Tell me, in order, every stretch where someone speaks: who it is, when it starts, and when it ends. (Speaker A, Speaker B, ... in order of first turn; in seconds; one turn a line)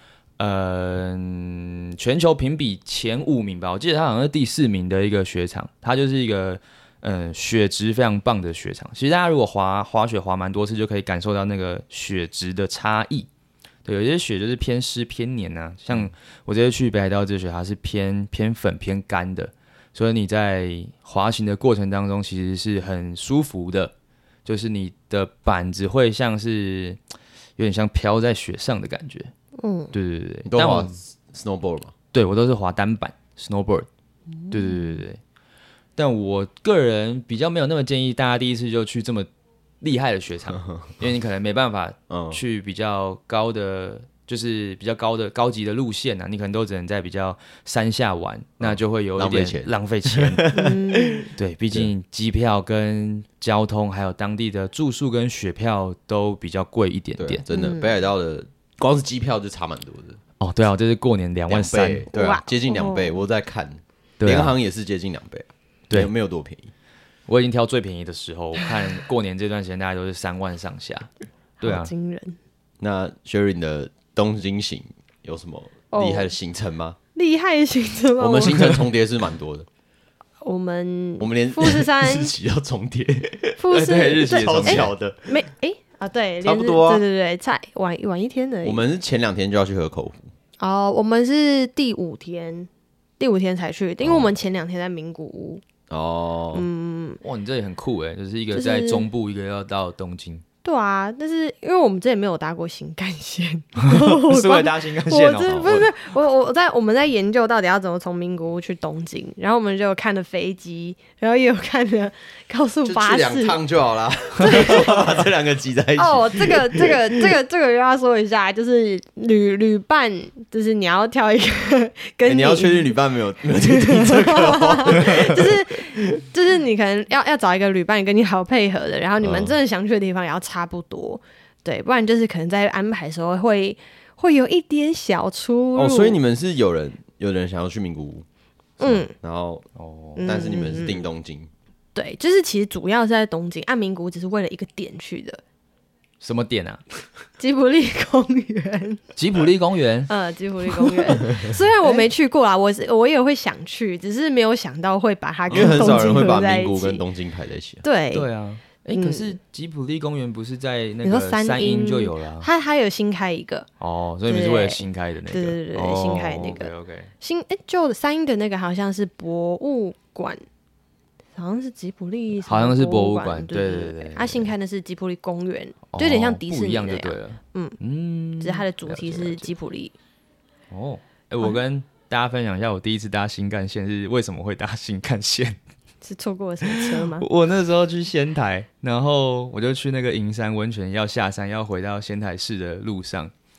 Speaker A: 0.4-13.3
Speaker A: 13.8-23.9
Speaker A: 24.4-27.0
Speaker A: 27.6-29.3
Speaker B: 29.6-29.9
Speaker A: 29.9-30.9
Speaker C: 30.4-31.9
Speaker A: 32.1-33.9
Speaker B: 34.4-35.0
Speaker A: 34.5-35.2
Speaker A: 36.0-39.3
Speaker A: 39.8-50.6
Speaker C: 42.1-42.4
Speaker C: 48.6-51.9
Speaker B: 50.5-51.3
Speaker A: 51.3-57.4
Speaker C: 57.2-60.2
Speaker B: 57.5-57.9
Speaker A: 60.4-62.0
Speaker C: 61.5-66.7
Speaker B: 62.1-63.2
Speaker A: 64.2-64.5
Speaker A: 67.3-71.1
Speaker B: 71.6-72.4
Speaker A: 71.6-71.9
Speaker C: 72.8-77.0
Speaker B: 75.9-76.3
Speaker B: 77.1-78.8
Speaker C: 78.2-79.7
Speaker B: 80.4-82.3
Speaker C: 81.2-85.3
Speaker B: 83.6-88.8
Speaker A: 83.7-84.9
Speaker C: 86.4-87.0
Speaker C: 88.6-90.3
Speaker B: 90.6-95.6
Speaker C: 94.0-94.3
Speaker C: 95.9-96.7
Speaker B: 96.5-97.2
Speaker A: 97.2-100.4
Speaker B: 98.5-99.1
Speaker B: 100.6-113.6
Speaker A: 103.9-105.9
Speaker C: 112.8-117.0
Speaker B: 114.4-115.2
Speaker B: 116.0-122.9
Speaker C: 122.2-126.2
Speaker B: 123.5-136.2
Speaker C: 129.2-129.5
Speaker C: 135.7-138.2
Speaker C: 138.8-139.6
Speaker B: 138.8-139.1
Speaker A: 139.8-140.3
Speaker B: 140.2-141.0
Speaker C: 140.2-141.5
Speaker B: 141.9-145.4
Speaker A: 146.2-146.8
Speaker B: 147.4-149.0
Speaker A: 149.2-150.1
Speaker B: 150.1-157.0
Speaker C: 155.5-157.8
Speaker A: 155.5-155.8
Speaker B: 157.8-158.3
Speaker A: 158.1-162.5
Speaker B: 158.9-159.3
Speaker B: 161.0-163.7
Speaker A: 163.8-167.1
Speaker B: 164.2-170.4
Speaker B: 171.3-177.8
Speaker A: 172.4-174.5
Speaker A: 175.9-179.5
Speaker B: 178.4-179.9
Speaker A: 180.7-185.6
Speaker B: 186.0-187.2
Speaker A: 186.6-193.3